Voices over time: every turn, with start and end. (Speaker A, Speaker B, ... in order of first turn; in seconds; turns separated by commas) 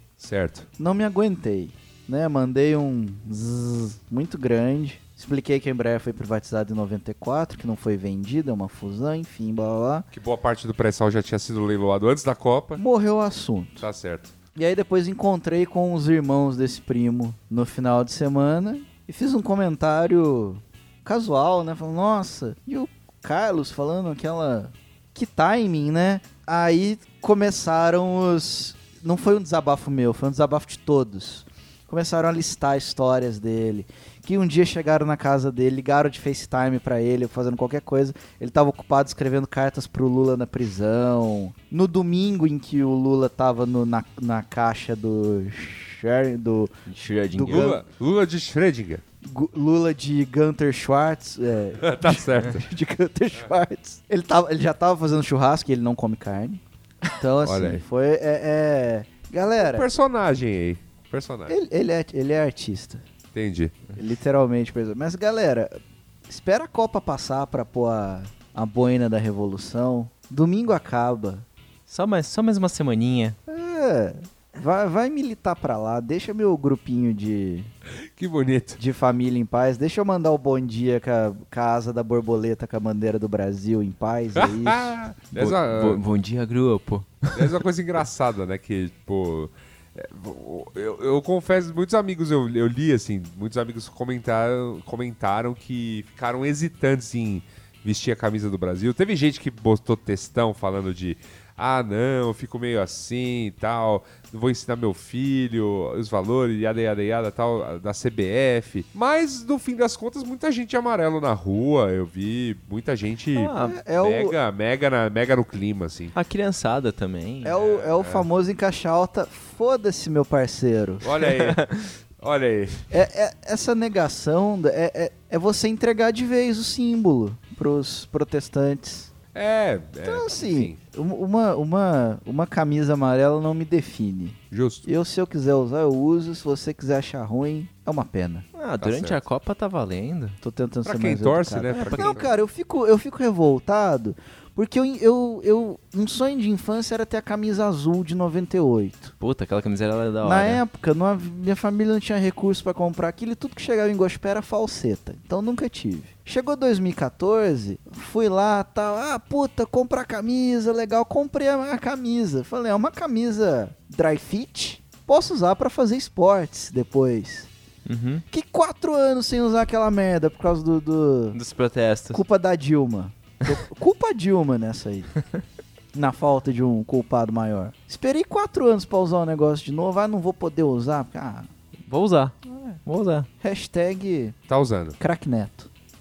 Speaker A: 0.2-0.7, Speaker B: 0.8-10.1, Speaker A: 10.1-12.8, Speaker B: 12.8-13.8, Speaker A: 13.8-14.3, Speaker B: 14.6-46.7, Speaker C: 46.9-47.7, Speaker B: 47.4-47.8, Speaker A: 47.5-49.0, Speaker B: 49.2-56.6, Speaker A: 51.8-52.6, Speaker B: 57.2-59.9, Speaker A: 57.4-57.8, Speaker A: 59.6-61.6, Speaker B: 61.5-63.0, Speaker A: 63.3-63.8, Speaker B: 64.0-65.8, Speaker B: 66.3-71.5, Speaker C: 71.9-73.4, Speaker B: 73.5-77.7, Speaker A: 78.2-78.8, Speaker B: 78.8-85.0, Speaker A: 84.4-86.0, Speaker C: 85.3-87.5, Speaker A: 87.3-116.2, Speaker C: 113.4-113.8, Speaker B: 113.5-114.4, Speaker C: 116.2-117.6, Speaker B: 117.4-121.0, Speaker A: 117.5-118.3, Speaker A: 121.0-121.6, Speaker C: 121.3-121.9, Speaker A: 122.2-122.8, Speaker B: 122.9-129.1, Speaker A: 129.3-130.8, Speaker B: 130.0-138.5, Speaker A: 134.5-134.9, Speaker C: 138.6-140.4, Speaker A: 138.8-139.2, Speaker B: 140.4-149.1, Speaker A: 140.8-142.3, Speaker C: 141.7-142.2, Speaker C: 149.2-150.6, Speaker B: 150.2-167.5, Speaker C: 167.9-168.2, Speaker B: 168.3-171.4, Speaker C: 171.3-172.2, Speaker B: 172.1-175.1, Speaker B: 175.9-181.5, Speaker C: 181.9-183.3, Speaker B: 182.5-182.8, Speaker B: 183.4-184.4, Speaker A: 184.5-185.0, Speaker B: 185.0-185.7